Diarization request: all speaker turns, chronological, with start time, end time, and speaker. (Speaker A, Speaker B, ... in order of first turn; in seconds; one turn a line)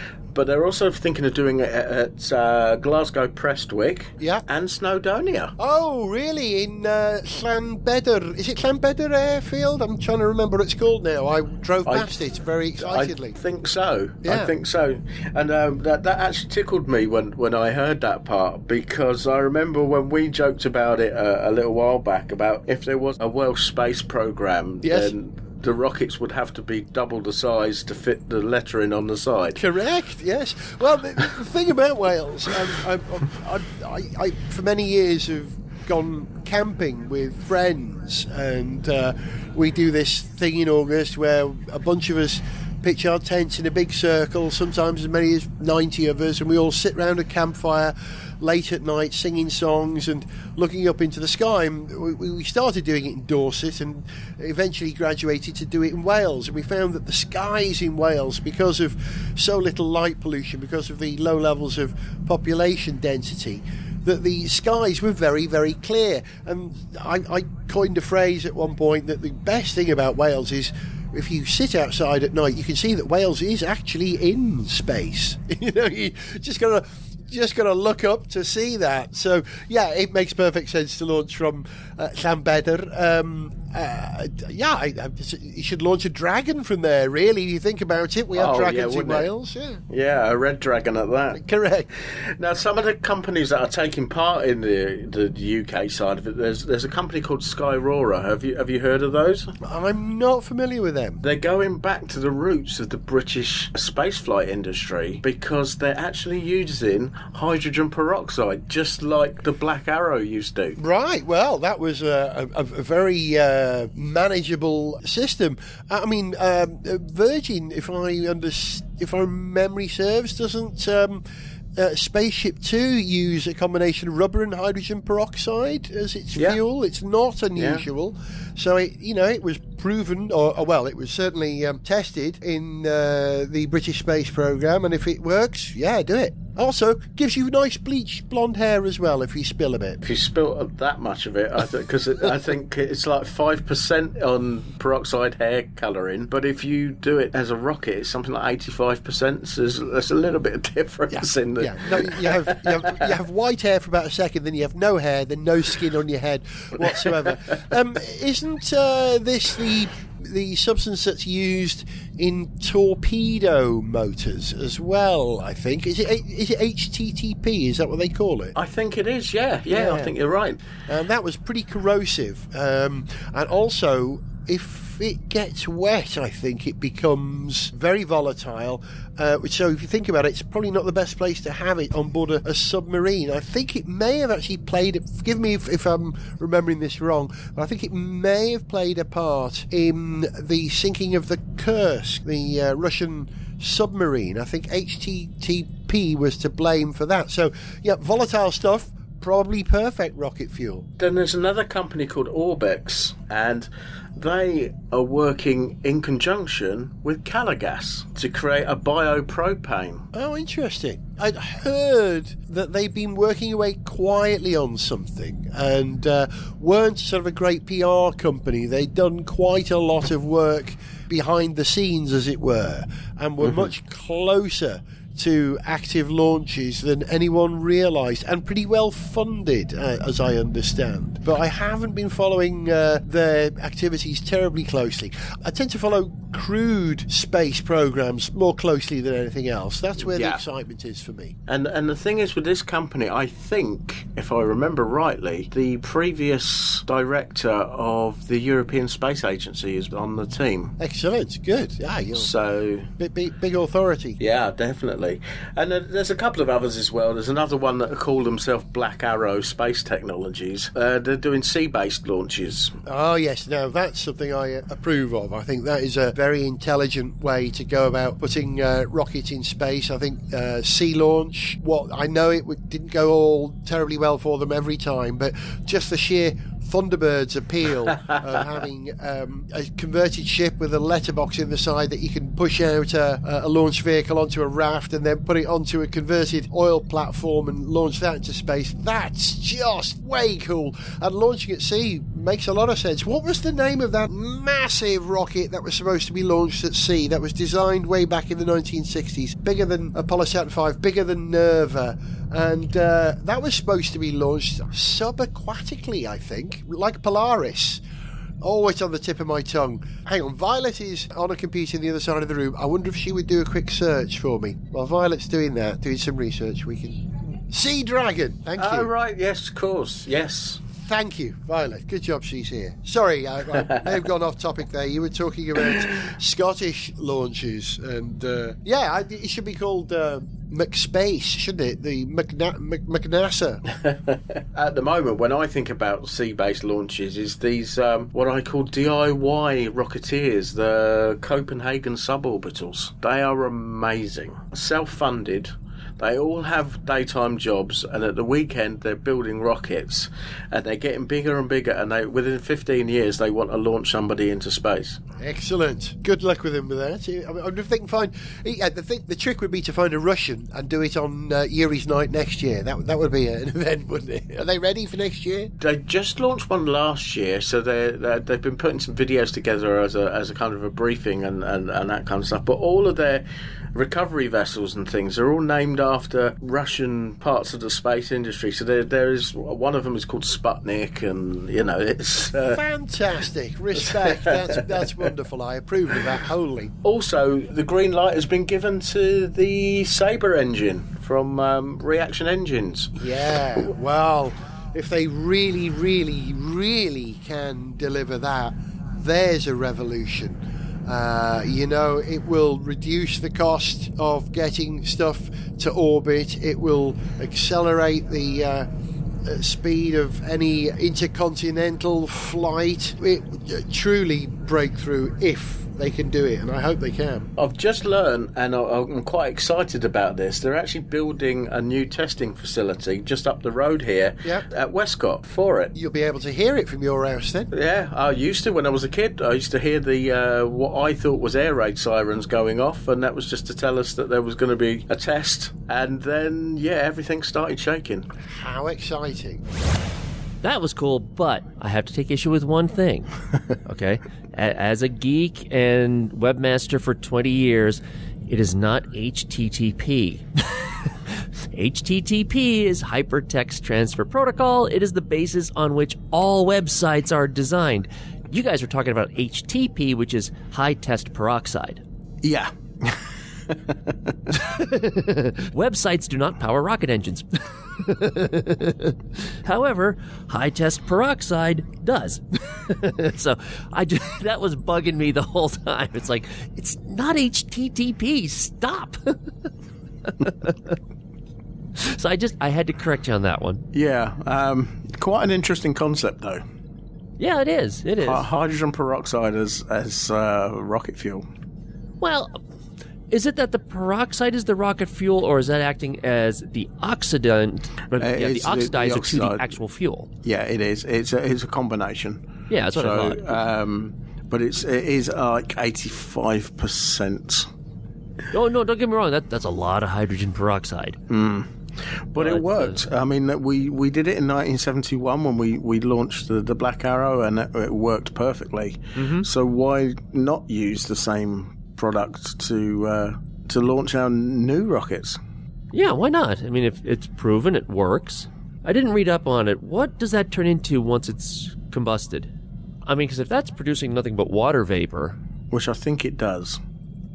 Speaker A: 0.3-5.5
Speaker B: 4.2-4.5
Speaker B: 5.6-13.4
Speaker A: 11.8-12.2
Speaker A: 12.8-29.6
Speaker B: 14.2-14.5
Speaker B: 24.8-25.1
Speaker B: 29.6-89.8
Speaker A: 88.3-89.3
Speaker A: 89.9-91.4
Speaker B: 91.3-91.9
Speaker A: 91.9-99.5
Speaker B: 99.6-101.2
Speaker A: 101.2-110.8
Speaker B: 110.8-121.2
Speaker B: 121.8-140.0
Speaker A: 126.4-126.6
Speaker A: 127.6-127.8
Speaker A: 140.0-153.1
Speaker B: 151.1-168.5
Speaker A: 156.8-157.6
Speaker A: 168.6-170.6
Speaker B: 169.7-170.1
Speaker B: 170.9-200.9
Speaker A: 201.0-210.1
Speaker B: 210.1-241.3
Speaker A: 223.4-223.7
Speaker A: 240.0-240.4
Speaker A: 241.5-250.8
Speaker B: 250.8-252.3
Speaker A: 252.1-252.9
Speaker B: 253.0-254.2
Speaker A: 254.2-262.8
Speaker B: 262.9-307.8
Speaker B: 308.4-318.9
Speaker A: 318.6-320.6
Speaker B: 320.7-333.6
Speaker A: 323.5-323.9
Speaker A: 333.9-355.0
Speaker B: 355.2-365.5
Speaker A: 365.6-382.6
Speaker B: 382.5-386.7
Speaker A: 383.9-385.1
Speaker A: 386.8-392.9
Speaker B: 393.0-408.7
Speaker B: 409.2-417.3
Speaker A: 417.4-425.7
Speaker B: 425.8-427.5
Speaker A: 427.5-438.1
Speaker B: 438.2-439.4
Speaker C: 440.4-443.1
Speaker C: 443.7-450.7
Speaker C: 451.5-461.8
Speaker A: 462.2-464.1
Speaker C: 464.4-479.5
Speaker C: 480.1-480.8
Speaker C: 481.8-483.6
Speaker A: 483.7-486.4
Speaker C: 487.2-488.3
Speaker A: 488.0-491.2
Speaker C: 492.0-492.4
Speaker C: 493.1-500.1
Speaker A: 498.0-499.6
Speaker A: 500.2-507.5
Speaker C: 502.5-503.4
Speaker C: 508.3-511.0
Speaker A: 511.1-525.2
Speaker C: 512.2-512.8
Speaker C: 519.0-519.3
Speaker C: 525.7-532.3
Speaker C: 532.9-535.1
Speaker A: 535.5-536.6